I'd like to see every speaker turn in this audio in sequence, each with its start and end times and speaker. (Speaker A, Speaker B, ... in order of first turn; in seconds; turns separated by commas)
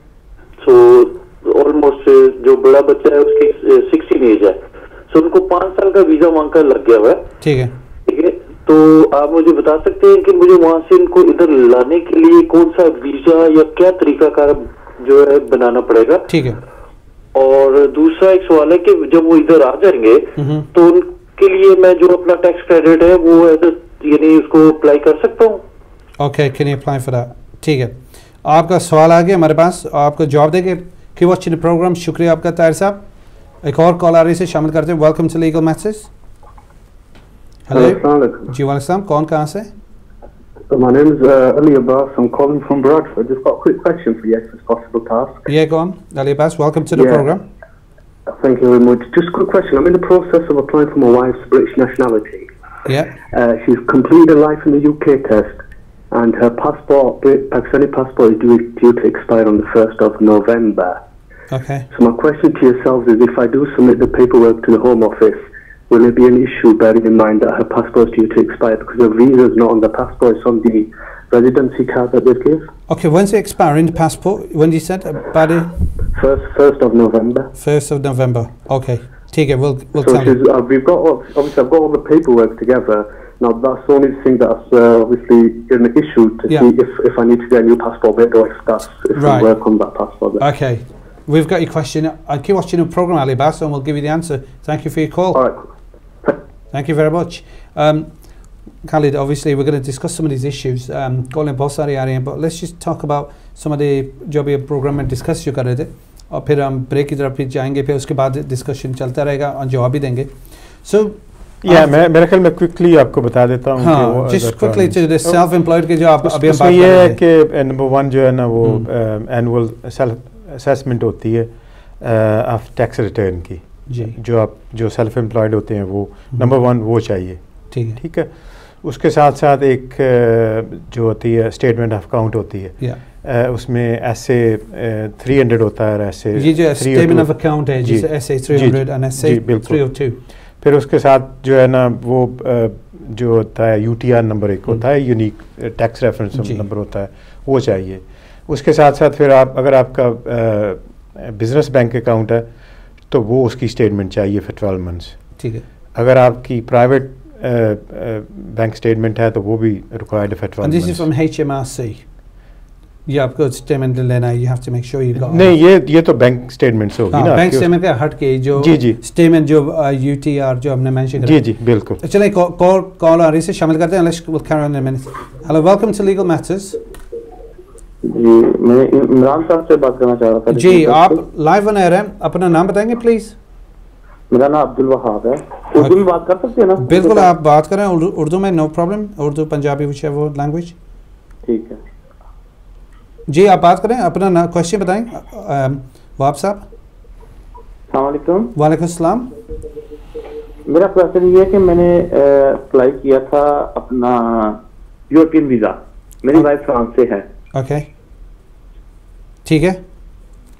Speaker A: 0.6-7.2, Speaker B: 7.4-7.7, Speaker A: 8.1-16.2, Speaker B: 16.3-16.6, Speaker A: 17.3-25.6, Speaker B: 20.4-20.7, Speaker B: 26.2-33.0, Speaker B: 33.6-36.1, Speaker B: 37.7-39.7, Speaker C: 37.7-38.5, Speaker C: 40.7-45.4, Speaker B: 45.5-47.4, Speaker C: 46.9-47.3, Speaker C: 48.4-52.5, Speaker B: 52.9-53.1, Speaker C: 53.3-55.5, Speaker C: 56.1-61.0, Speaker B: 61.5-61.9, Speaker C: 61.9-72.7, Speaker B: 72.9-75.7, Speaker C: 76.2-77.5, Speaker B: 77.5-80.3, Speaker C: 80.0-90.5, Speaker B: 89.1-89.5, Speaker B: 90.4-95.4, Speaker C: 95.3-95.7, Speaker B: 96.7-98.2, Speaker B: 98.8-112.0, Speaker D: 111.6-115.4, Speaker B: 113.8-117.2, Speaker D: 116.2-127.4, Speaker B: 118.6-118.9, Speaker B: 123.9-124.2, Speaker B: 127.7-128.0, Speaker D: 128.0-139.9, Speaker B: 136.3-140.2, Speaker D: 140.6-152.4, Speaker B: 146.4-146.6, Speaker D: 153.1-155.2, Speaker B: 155.4-155.6, Speaker D: 155.9-161.1, Speaker B: 160.6-162.0, Speaker B: 163.1-165.5, Speaker D: 165.2-167.7, Speaker B: 167.1-171.4, Speaker D: 168.6-169.0, Speaker D: 171.2-172.0, Speaker B: 172.0-176.8, Speaker E: 178.0-181.2, Speaker B: 180.5-183.3, Speaker E: 184.3-187.3, Speaker B: 186.8-190.7, Speaker E: 191.4-191.8, Speaker B: 193.3-196.6, Speaker E: 197.9-198.5, Speaker B: 198.5-199.3, Speaker E: 200.7-204.6, Speaker E: 205.1-207.2, Speaker B: 207.5-207.9, Speaker B: 209.4-209.8